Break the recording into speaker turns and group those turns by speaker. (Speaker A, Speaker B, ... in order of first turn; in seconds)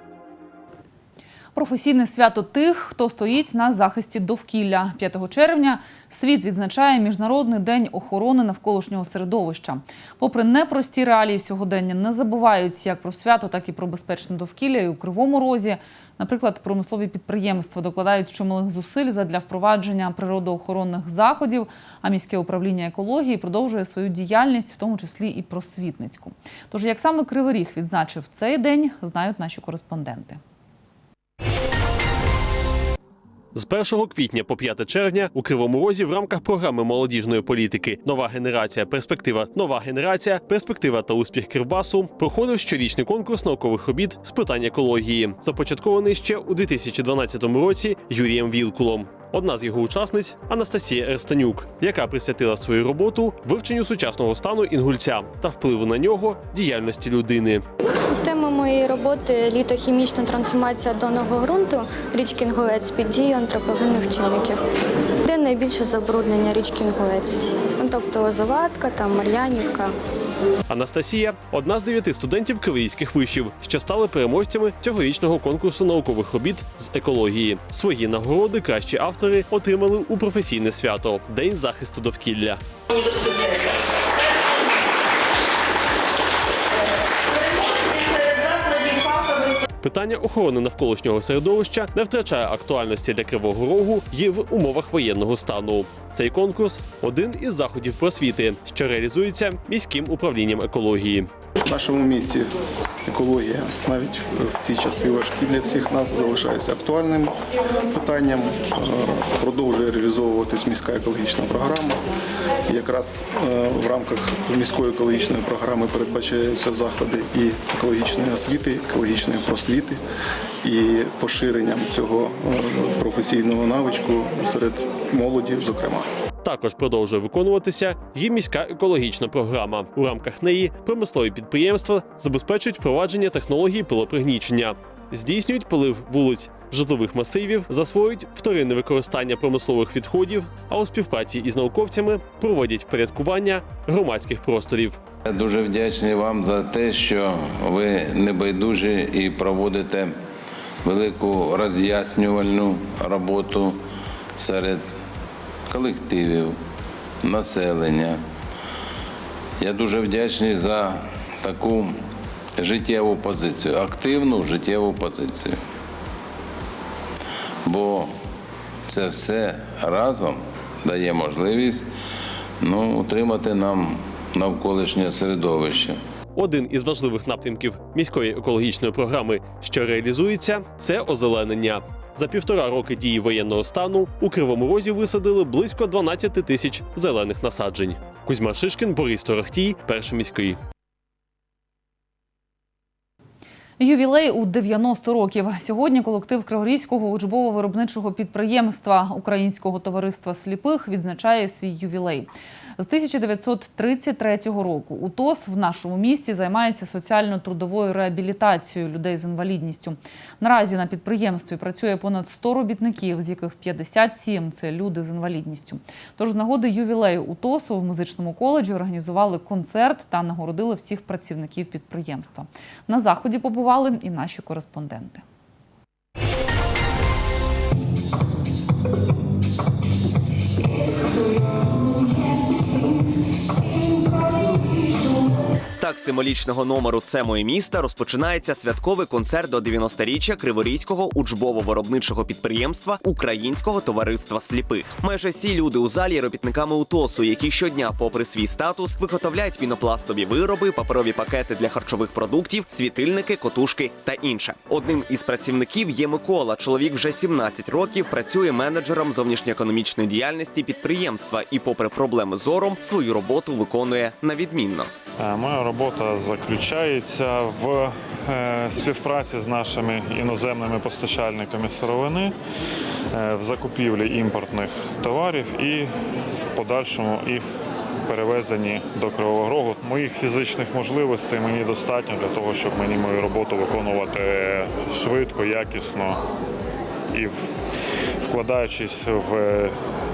Speaker A: 1.6-30.4, 193.8-225.2
Speaker B: 33.5-57.6, 70.7-82.6, 89.8-101.3, 126.4-145.0, 176.3-190.6
Speaker C: 58.1-64.6, 65.2-69.9
Speaker D: 101.7-102.5, 103.1-107.4, 107.9-112.0, 112.7-120.0, 120.6-126.1
Speaker E: 145.2-150.2, 150.8-153.8, 154.4-154.9, 155.7-156.6, 157.2-158.2, 159.6-162.0, 162.6-165.6, 167.7-168.1, 168.9-171.9, 172.6-176.0
Speaker F: 235.8-264.9
Speaker G: 265.2-272.4, 273.1-275.9, 276.5-277.5, 278.1-286.2, 287.1-287.5, 288.2-289.8